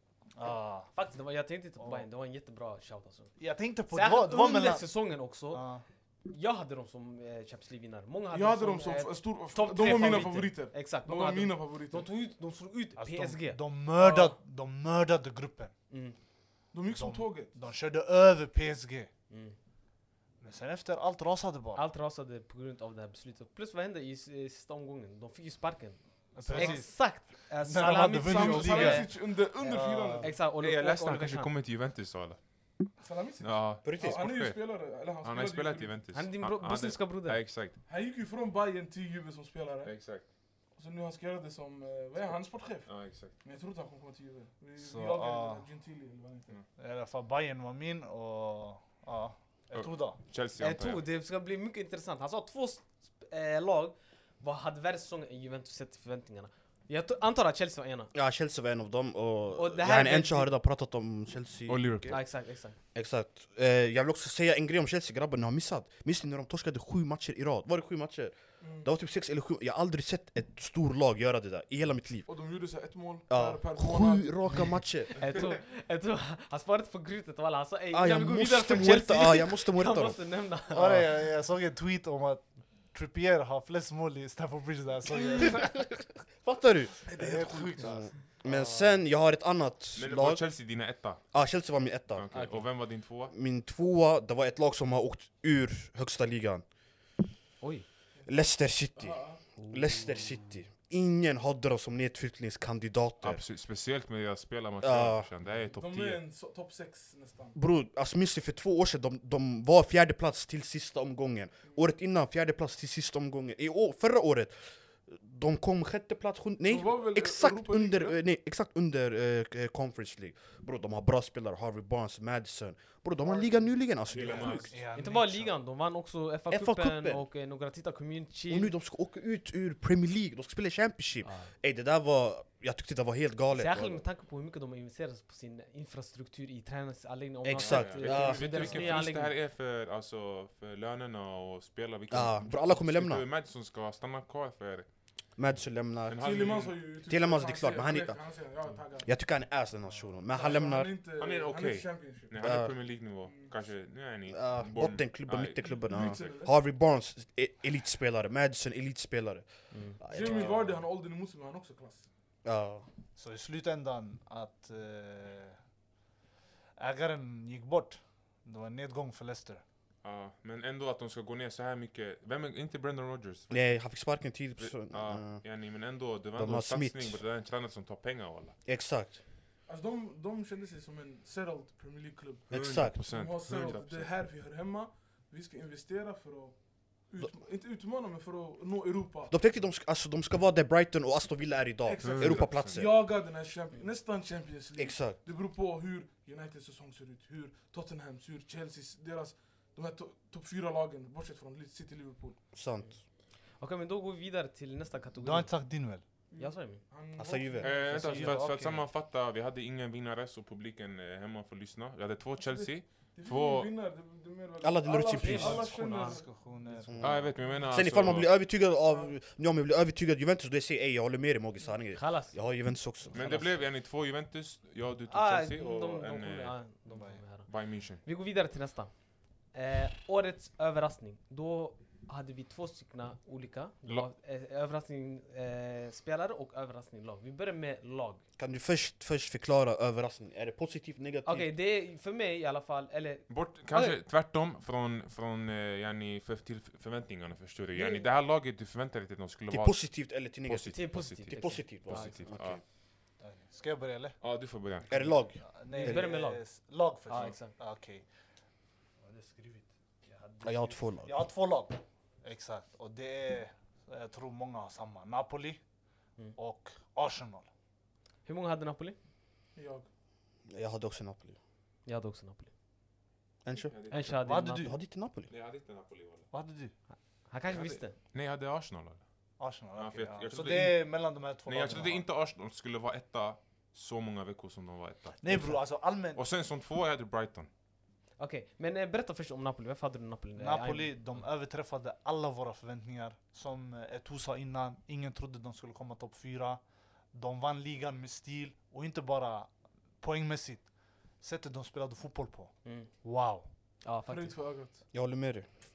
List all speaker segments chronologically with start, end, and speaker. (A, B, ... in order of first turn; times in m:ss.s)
0:00.4-0:00.9 A
0:00.4-0:03.3 B
0:01.8-0:02.1 A
0:03.4-0:04.8 A
0:03.9-0:05.6 B
0:05.5-0:05.8 A
0:06.3-0:14.4 B
0:08.3-0:12.1 C
0:13.0-0:15.7 A
0:15.9-0:16.2 B
0:16.7-0:17.5 C
0:16.9-0:19.1 A
0:19.3-0:19.6 B
0:20.4-0:21.8 A
0:21.7-0:31.5 B
0:26.3-0:30.3 A
0:26.5-0:26.8 C
0:28.1-0:30.3 C
0:30.6-0:32.4 D
0:33.0-0:35.9 C
0:33.4-0:37.8 D
0:33.8-0:34.2 E
0:36.1-0:37.4 B
0:37.8-0:39.9 C
0:39.8-0:40.2 D
0:40.8-0:42.9 C
0:42.8-0:43.3 D
0:43.4-0:46.6 C
0:44.8-0:45.7 A
0:46.8-0:50.2 A
0:49.7-0:51.0 D
0:50.6-0:58.1 B
0:58.1-1:02.2 E
0:59.5-1:00.5 B
1:01.7-1:02.2 D
1:02.1-1:02.8 B
1:02.9-1:12.3 E
1:08.6-1:08.9 C
1:12.2-1:14.3 C
1:13.3-1:15.2 E
1:15.2-1:21.0 B
1:17.9-1:20.2 E
1:20.7-1:25.9 A
1:25.4-1:27.0 E
1:27.1-1:28.1 C
1:27.1-1:28.1 A
1:27.8-1:30.4 E
1:30.0-1:31.2 D
1:31.3-1:32.3 E
1:32.1-1:33.3 D
1:32.3-1:32.6 B
1:33.3-1:36.6 E
1:37.6-1:37.8 B
1:38.3-1:43.4 E
1:39.0-1:39.4 C
1:39.6-1:40.5 B
1:43.2-1:46.2 D
1:44.8-1:45.3 E
1:45.7-1:47.6 C
1:47.5-2:04.7 E
1:56.6-1:58.2 C
2:03.2-2:04.7 C
2:04.1-2:04.7 D
2:04.6-2:05.5 A
2:04.9-2:08.7 B
2:06.5-2:07.2 E
2:08.5-2:14.0 E
2:11.2-2:11.5 B
2:13.5-2:19.4 B
2:17.4-2:18.8 E
2:17.6-2:24.9 D
2:22.1-2:23.2 E
2:25.4-2:28.2 E
2:26.0-2:26.9 D
2:26.2-2:29.1 C
2:29.0-2:30.9 E
2:30.3-2:32.5 C
2:31.2-2:36.4 D
2:32.4-2:32.7 E
2:33.2-2:33.5 C
2:34.3-2:40.6 E
2:35.8-2:36.5 C
2:39.7-2:40.0 B
2:40.1-2:42.1 C
2:40.2-2:40.5 D
2:42.4-2:42.8 E
2:43.2-2:45.6 A
2:46.8-2:49.6 A
2:50.0-2:53.8 D
2:53.5-2:55.4 E
2:54.6-2:58.5 D
2:56.4-2:57.2 E
2:58.6-2:59.2 E
2:59.7-3:09.3 C
3:02.5-3:03.0 E
3:02.5-3:04.1 D
3:09.3-3:13.0 E
3:11.8-3:22.4 C
3:12.0-3:12.8 D
3:14.8-3:15.2 E
3:22.5-3:23.0 E
3:23.6-3:25.6 B
3:25.2-3:26.0 A
3:26.3-3:27.9 C
3:26.4-3:26.8 B
3:27.2-3:27.8 E
3:27.6-3:33.7 D
3:27.8-3:28.8 A
3:32.4-3:36.3 C
3:34.6-3:35.7 E
3:35.1-3:36.2 B
3:35.8-3:37.3 A
3:36.9-3:43.3 E
3:37.0-3:38.3 D
3:37.4-3:37.7 C
3:41.9-3:42.4 B
3:43.1-3:43.6 B
3:43.1-3:46.6 D
3:45.1-3:47.5 B
3:46.9-3:47.2 A
3:47.4-3:48.0 D
3:48.0-3:48.9 B
3:49.5-3:58.2 B
3:58.4-4:01.5 E
4:01.2-4:04.0 B
4:03.3-4:12.6 D
4:09.5-4:12.6 E
4:10.7-4:12.2 B
4:13.2-4:14.2 A
4:14.2-4:15.0 D
4:14.9-4:16.1 E
4:14.9-4:18.0 A
4:15.7-4:16.5 B
4:17.0-4:17.5 B
4:19.0-4:25.6 A
4:20.4-4:21.2 E
4:26.3-4:27.5 A
4:28.2-4:29.0 B
4:29.5-4:29.9 C
4:30.5-4:31.4 E
4:31.8-4:32.5 B
4:33.4-4:35.3 E
4:33.7-4:34.2 D
4:33.9-4:34.7 B
4:34.2-4:34.8 A
4:35.3-4:36.3 D
4:36.3-4:36.7 A
4:36.9-4:38.0 B
4:37.5-4:39.0 D
4:39.4-4:42.0 A
4:39.7-4:47.5 D
4:45.2-4:46.2 A
4:48.2-4:51.2 B
4:50.4-4:56.6 A
4:57.1-5:03.5 A
5:02.6-5:02.9 B
5:03.8-5:04.3 B
5:04.1-5:04.8 C
5:04.9-5:05.5 E